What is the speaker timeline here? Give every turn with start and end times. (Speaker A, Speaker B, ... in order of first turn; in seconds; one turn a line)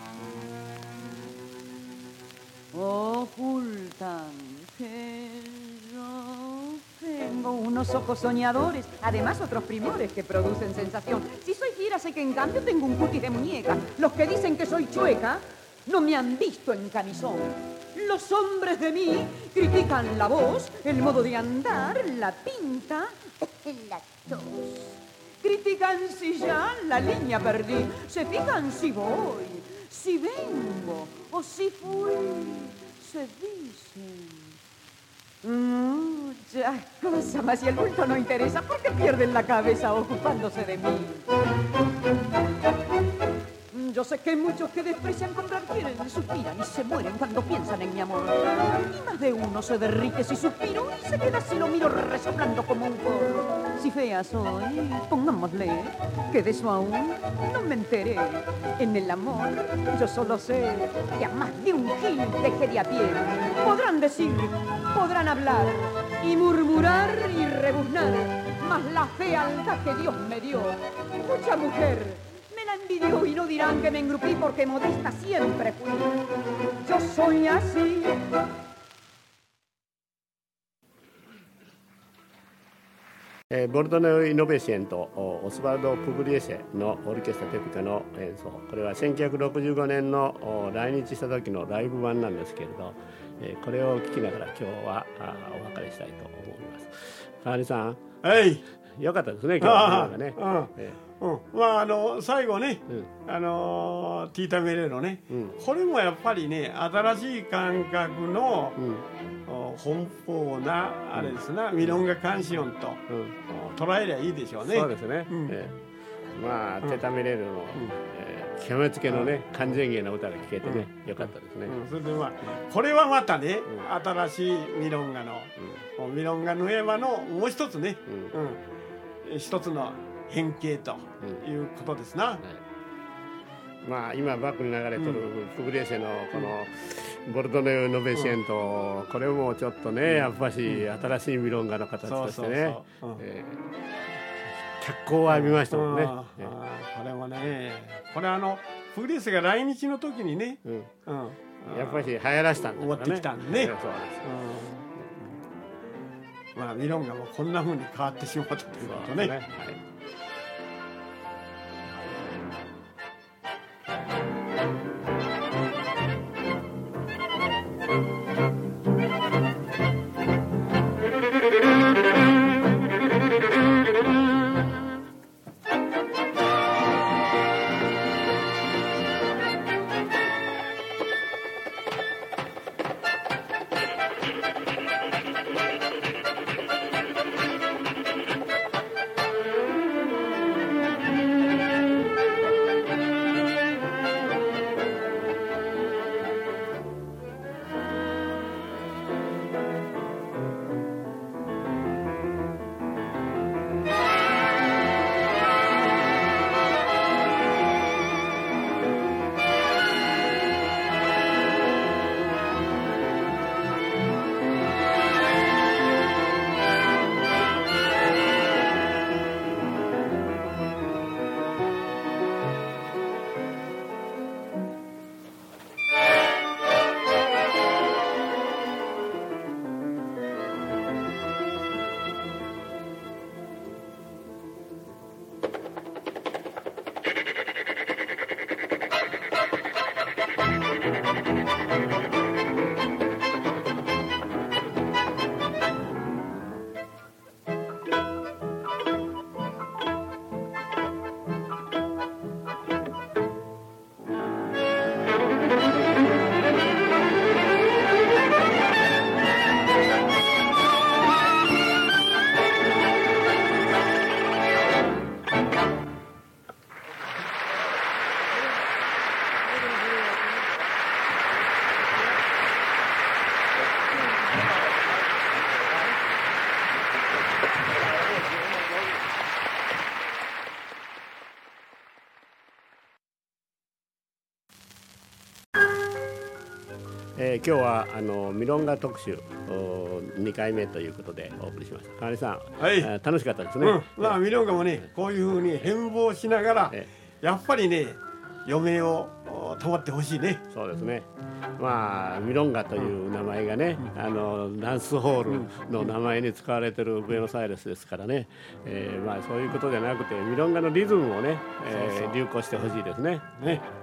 Speaker A: 2.7-34.5
Speaker A: 35.4-41.2
Speaker A: 43.7-76.1
Speaker A: 76.8-78.2
Speaker B: 83.5-98.0
Speaker C: 98.2-98.6
Speaker B: 99.0-101.0
Speaker C: 99.6-108.8
Speaker B: 105.3-105.5
Speaker B: 108.8-109.0
Speaker C: 109.5-115.5
Speaker B: 113.1-113.4
Speaker B: 114.6-115.8
Speaker B: 116.3-121.8
Speaker C: 119.1-119.3
Speaker C: 120.6-128.6
Speaker B: 128.1-128.3
Speaker C: 129.2-132.4
Speaker B: 133.8-143.6
Speaker C: 135.0-135.2
Speaker C: 140.1-140.8
Speaker C: 142.1-143.2
Speaker B: 144.8-146.5
Speaker C: 145.3-152.1
Speaker B: 150.6-150.9
Speaker B: 151.6-154.3
Speaker C: 152.7-154.9
Speaker C: 156.6-159.3
Speaker B: 158.8-159.8
Speaker B: 287.1-294.2
Speaker C: 292.6-292.9
Speaker C: 293.6-300.4
Speaker B: 300.5-313.7
Speaker C: 311.7-312.2